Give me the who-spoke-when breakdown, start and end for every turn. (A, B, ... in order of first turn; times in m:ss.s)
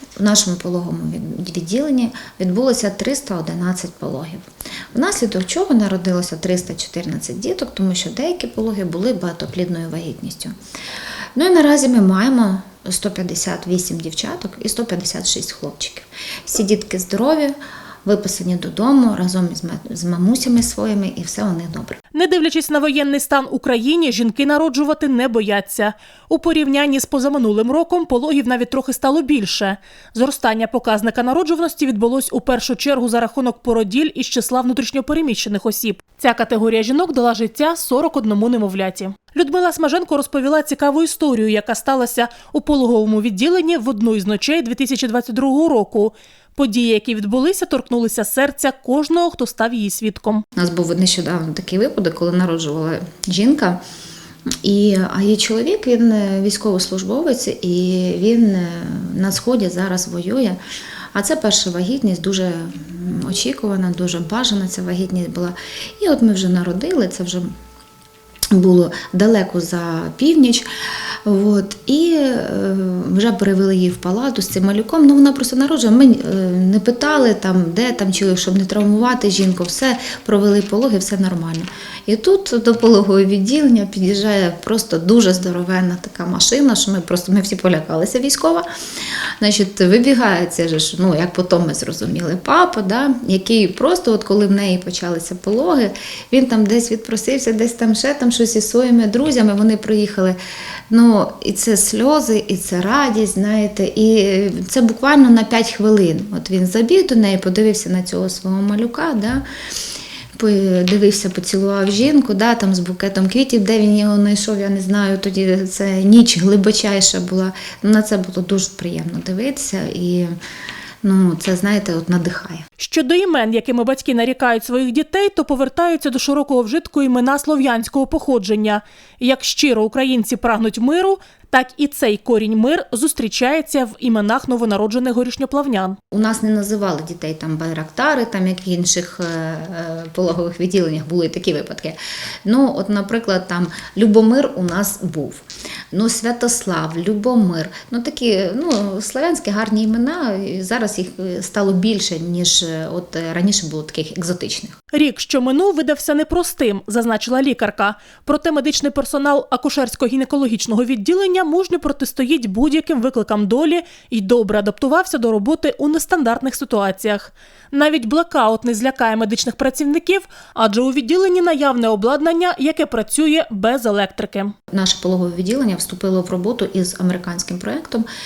0:00.2-0:04.4 A
0:04.9-0:10.5 A
0:11.4-0:22.0 A
0:22.1-0:50.4 B
0:50.6-0:53.8 A
0:54.6-1:00.6 A
1:01.1-1:07.5 A
1:08.5-1:28.6 A
1:29.4-1:40.4 A
1:40.9-1:49.4 A
1:50.4-2:00.3 A
2:01.0-2:02.6 A
2:02.8-2:16.0 B
2:16.1-2:34.7 A
2:34.9-2:54.5 B
2:54.7-2:58.1 A